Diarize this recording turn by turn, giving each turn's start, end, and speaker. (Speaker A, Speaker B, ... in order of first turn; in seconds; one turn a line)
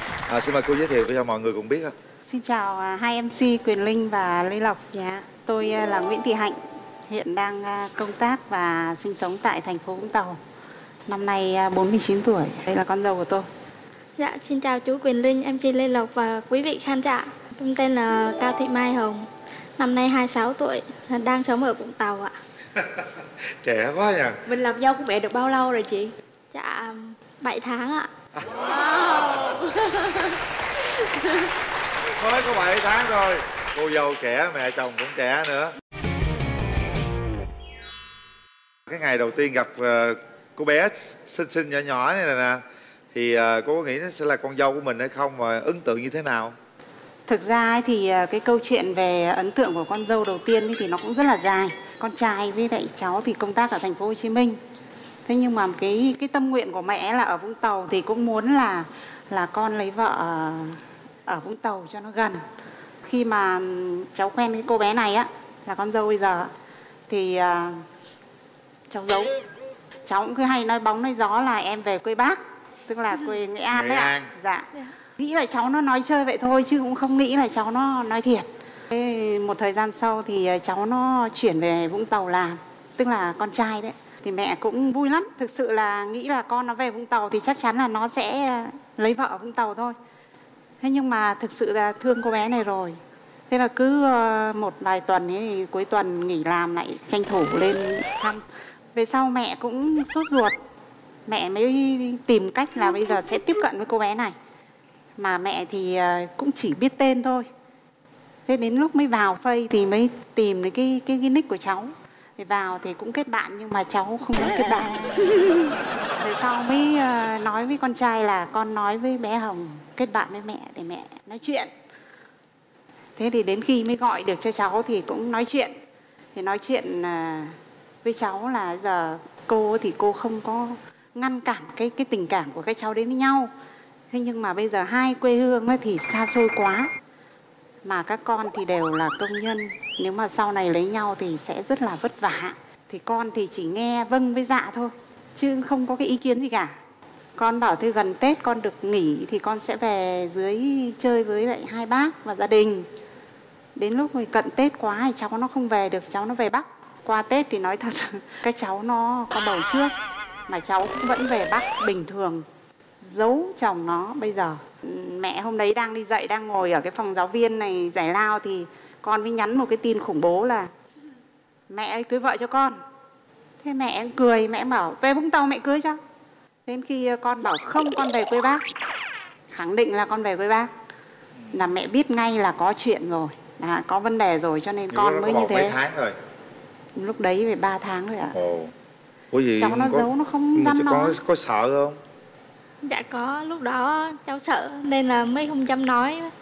Speaker A: 0.3-1.9
Speaker B: 2.3-4.8
Speaker C: 4.9-5.2
Speaker B: 5.5-10.4
Speaker B: 11.1-13.5
Speaker D: 14.2-22.4
Speaker A: 22.8-23.0
Speaker A: 23.6-24.4
Speaker C: 24.5-26.1
Speaker D: 26.5-28.1
Speaker C: 28.7-30.4
Speaker C: 31.0-31.5
Speaker A: 32.2-35.7
Speaker A: 38.9-42.6
Speaker A: 43.1-46.5
Speaker B: 47.3-54.6
Speaker B: 55.3-62.4
Speaker B: 63.0-66.5
Speaker B: 67.1-67.8
Speaker B: 68.9-69.3
Speaker B: 70.1-90.0
Speaker A: 73.7-74.3
Speaker B: 90.8-93.0
Speaker B: 93.5-98.4
Speaker B: 98.9-100.5
Speaker B: 101.3-104.3
Speaker B: 105.2-107.5
Speaker B: 108.5-121.7
Speaker B: 123.2-125.7
Speaker B: 126.3-133.5
Speaker B: 134.1-136.9
Speaker B: 137.8-146.7
Speaker B: 147.4-152.9
Speaker B: 153.8-159.9
Speaker B: 160.5-162.4
Speaker B: 163.0-170.7
Speaker B: 171.7-172.8
Speaker B: 173.6-176.0
Speaker B: 176.7-178.6
Speaker B: 179.5-180.7
Speaker B: 181.5-185.8
Speaker A: 184.9-186.2
Speaker B: 186.9-188.4
Speaker A: 188.3-188.7
Speaker A: 189.3-192.0
Speaker B: 189.6-191.2
Speaker D: 192.8-196.3